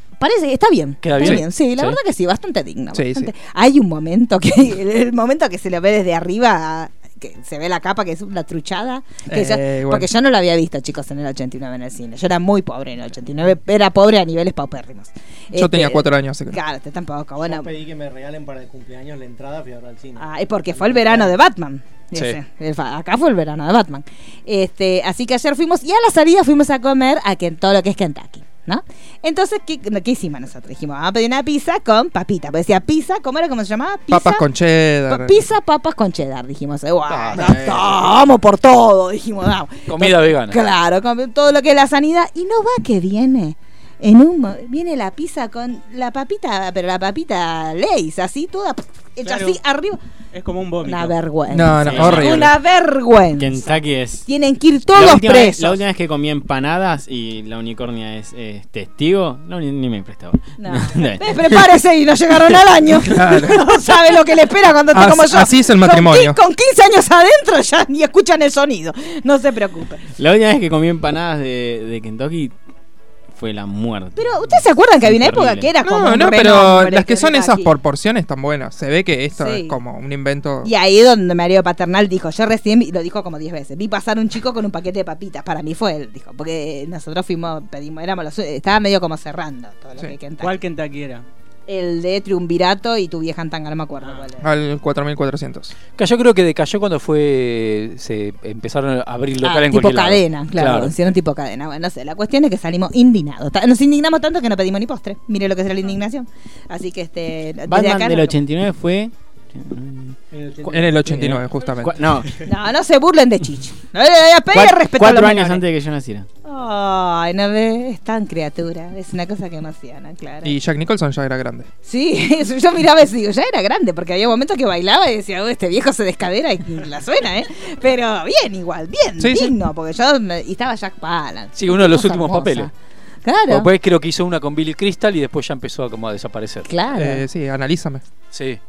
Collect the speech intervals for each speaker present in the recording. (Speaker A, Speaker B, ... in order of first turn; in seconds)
Speaker A: 0.2-17.7, 20.2-34.4, 35.1-50.0, 50.8-53.8, 54.2-55.8, 60.6-70.0, 74.1-77.7, 79.3-79.8, 80.6-90.6, 91.7-94.4, 99.4-108.4, 112.4-115.6, 116.4-120.5, 121.8-132.7, 133.2-133.7, 136.7-137.2
Speaker B: 1.0-2.0, 37.1-37.6, 39.9-40.6, 96.0-100.9, 131.6-132.7, 133.5-136.7, 138.3-138.6
Speaker C: 2.9-3.3, 9.3-10.1, 15.5-16.6, 34.1-35.4, 37.4-37.9, 51.5-52.5, 63.0-63.8, 64.9-66.4, 75.8-80.7, 94.4-95.7, 110.6-112.0, 120.4-121.7, 129.2-129.6, 136.9-138.0
Speaker D: 17.4-21.4, 110.3-111.0
Speaker E: 49.2-49.6, 50.3-51.1, 52.0-52.2, 90.4-91.2
Speaker F: 53.4-54.3, 54.9-61.5, 70.2-72.5, 73.3-75.7, 107.7-112.3, 114.5-116.3